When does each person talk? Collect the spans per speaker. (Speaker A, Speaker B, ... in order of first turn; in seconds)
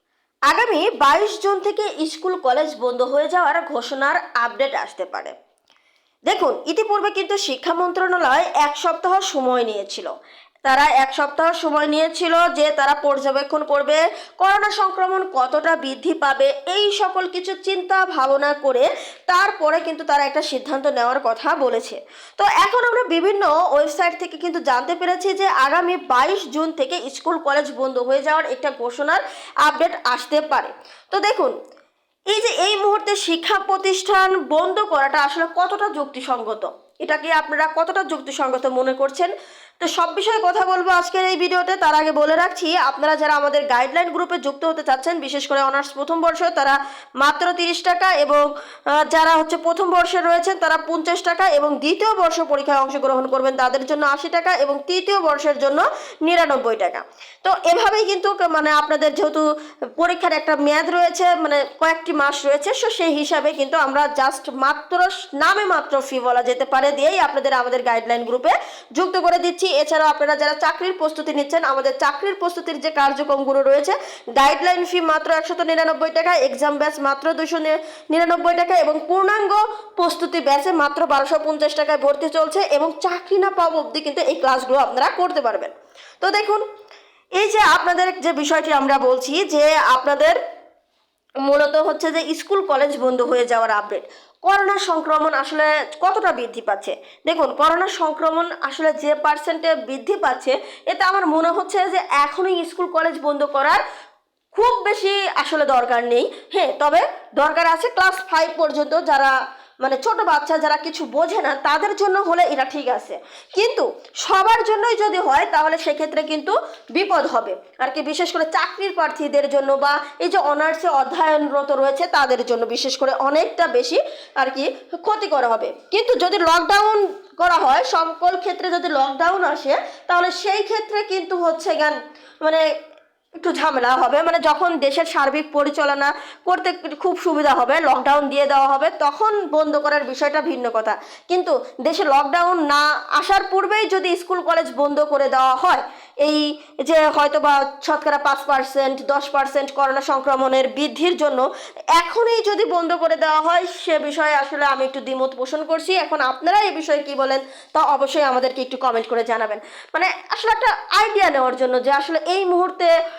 Speaker A: 0.5-5.3, 6.3-10.1, 10.6-31.5, 32.3-48.5, 49.0-59.4, 60.0-86.6, 87.4-90.4, 91.4-103.8, 104.5-132.6, 133.4-162.9